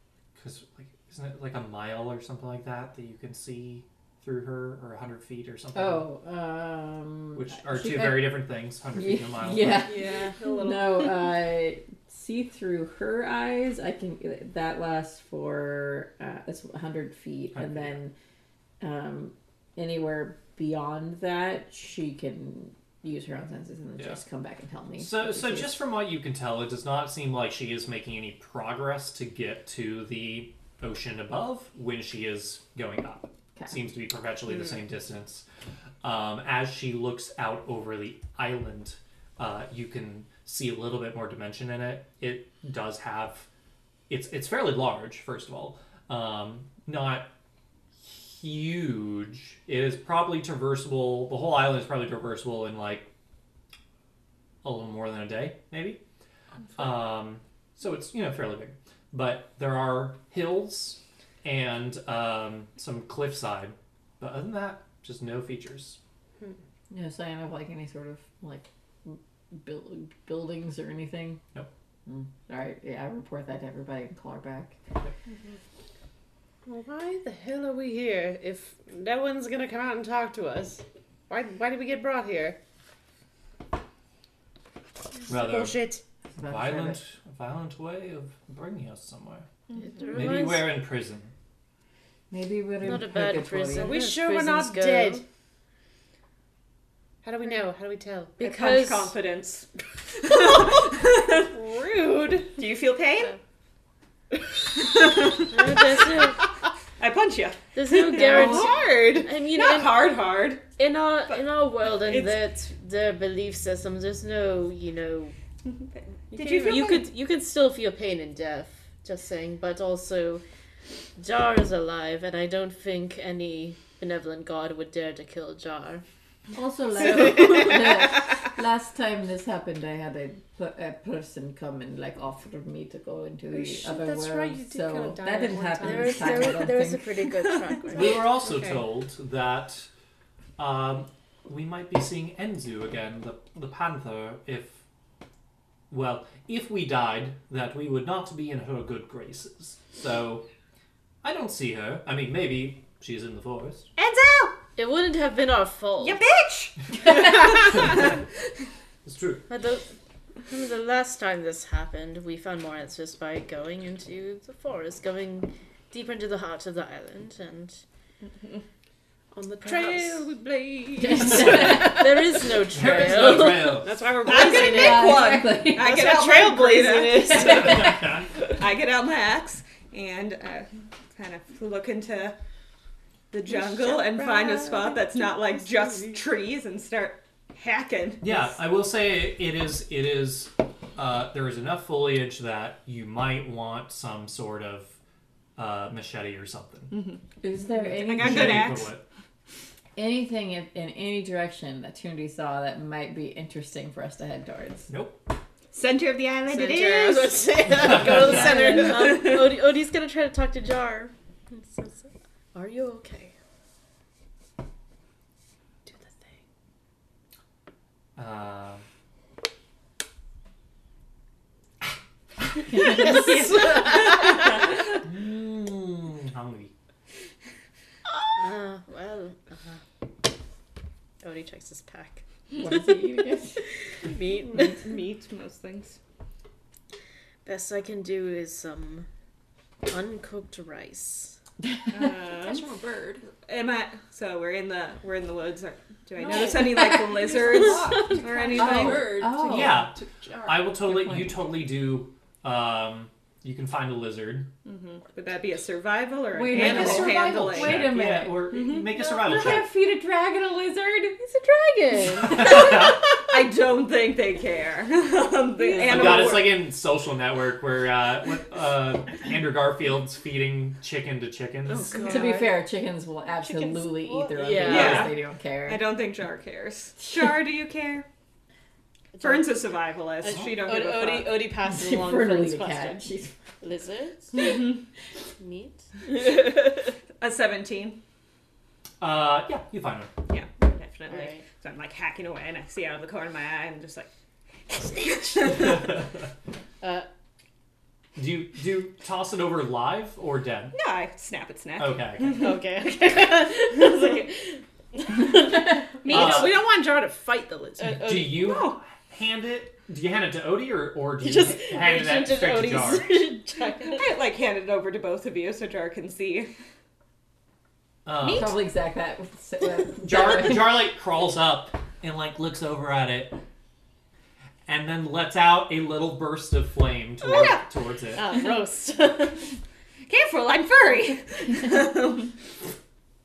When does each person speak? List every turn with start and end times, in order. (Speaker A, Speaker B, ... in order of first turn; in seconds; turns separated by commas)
Speaker A: 0.3-6.1, Speaker B: 5.7-18.1, Speaker A: 7.3-9.9, Speaker C: 9.8-11.1, Speaker A: 17.5-18.0, Speaker B: 18.8-25.8, Speaker A: 25.0-35.4, Speaker A: 36.0-43.5, Speaker A: 44.1-47.3, Speaker A: 48.0-53.1, Speaker A: 54.6-56.0, Speaker A: 56.8-66.0, Speaker B: 66.9-71.4, Speaker B: 72.0-74.8, Speaker D: 76.7-82.6, Speaker A: 85.3-89.5, Speaker D: 85.3-86.0, Speaker B: 86.3-87.0, Speaker E: 90.0-90.8, Speaker A: 90.1-91.3, Speaker B: 92.3-94.0, Speaker E: 92.8-95.2, Speaker D: 93.7-95.2, Speaker D: 97.2-98.4, Speaker E: 98.4-99.1, Speaker F: 98.4-99.7, Speaker F: 100.2-101.5, Speaker D: 101.0-102.6, Speaker F: 102.5-103.3, Speaker F: 104.8-105.8, Speaker E: 105.4-106.4, Speaker F: 107.0-108.8, Speaker E: 107.7-110.0, Speaker D: 108.0-109.3, Speaker F: 109.5-110.7, Speaker E: 110.8-115.3, Speaker F: 111.3-112.5, Speaker F: 116.3-117.1, Speaker E: 116.3-120.4, Speaker E: 121.2-126.0, Speaker B: 126.5-137.1, Speaker E: 127.3-127.7, Speaker D: 133.5-136.7, Speaker E: 135.7-138.3, Speaker F: 137.3-137.7, Speaker A: 137.9-139.9, Speaker D: 137.9-138.9, Speaker A: 140.6-144.8, Speaker A: 145.9-150.4, Speaker A: 151.2-153.9, Speaker F: 154.0-154.6, Speaker E: 154.8-156.2, Speaker F: 156.0-158.2, Speaker A: 157.7-158.1, Speaker A: 159.1-159.5, Speaker E: 159.5-159.9, Speaker E: 160.4-167.8, Speaker D: 169.3-172.1, Speaker E: 169.7-170.2, Speaker B: 171.0-172.0, Speaker E: 171.3-173.8, Speaker A: 172.7-174.0, Speaker D: 172.9-177.9, Speaker F: 174.2-177.8, Speaker B: 174.3-176.1, Speaker B: 177.4-177.6, Speaker A: 177.7-178.3, Speaker F: 178.4-182.4, Speaker F: 183.3-188.2, Speaker D: 183.5-186.2, Speaker A: 188.2-195.0, Speaker A: 195.6-197.0, Speaker F: 196.9-197.2, Speaker B: 197.4-198.7, Speaker F: 197.8-198.9, Speaker A: 198.2-199.0, Speaker B: 199.9-204.9, Speaker A: 204.9-205.2, Speaker F: 205.7-207.5, Speaker E: 206.5-213.3, Speaker A: 207.7-208.8, Speaker D: 207.8-208.8, Speaker F: 208.5-209.5, Speaker E: 215.8-216.3, Speaker A: 218.2-218.8, Speaker B: 222.7-223.4, Speaker E: 222.9-224.3, Speaker F: 222.9-224.5, Speaker A: 225.0-226.7, Speaker E: 228.3-229.8, Speaker E: 231.2-232.8, Speaker B: 232.6-233.6, Speaker E: 234.0-234.7, Speaker F: 234.2-236.0, Speaker E: 237.4-239.1, Speaker E: 239.8-241.3, Speaker B: 241.6-242.0, Speaker F: 241.9-242.7, Speaker C: 242.3-243.3, Speaker F: 243.3-249.2, Speaker C: 246.2-250.8, Speaker B: 246.5-247.3, Speaker B: 248.5-249.9, Speaker A: 249.4-254.5, Speaker B: 250.8-251.3, Speaker F: 255.1-257.8, Speaker B: 256.3-262.4, Speaker A: 256.6-259.7, Speaker F: 258.5-258.9, Speaker A: 262.2-263.1, Speaker F: 262.4-266.6, Speaker A: 265.7-272.2, Speaker D: 271.7-272.6, Speaker E: 271.9-272.4, Speaker B: 272.1-275.8, Speaker E: 273.4-275.1, Speaker A: 274.6-275.1, Speaker F: 274.6-278.1, Speaker E: 279.1-283.0, Speaker F: 279.2-281.5, Speaker B: 281.6-283.3, Speaker E: 283.6-284.6, Speaker F: 284.4-284.6, Speaker E: 285.4-285.8, Speaker F: 286.1-288.0, Speaker A: 289.0-290.1, Speaker F: 290.3-294.1, Speaker E: 291.1-291.4, Speaker F: 294.7-295.8, Speaker E: 296.8-297.1, Speaker A: 298.1-300.8, Speaker F: 300.7-302.4, Speaker A: 301.8-302.6, Speaker E: 302.4-306.6, Speaker D: 306.0-308.0, Speaker A: 306.1-306.6, Speaker E: 307.8-308.7, Speaker A: 307.9-313.1, Speaker E: 311.2-314.1, Speaker F: 313.8-316.5, Speaker A: 318.0-318.6, Speaker B: 318.3-320.8, Speaker A: 320.0-323.4, Speaker A: 324.6-328.5, Speaker E: 328.1-329.5, Speaker F: 330.1-332.3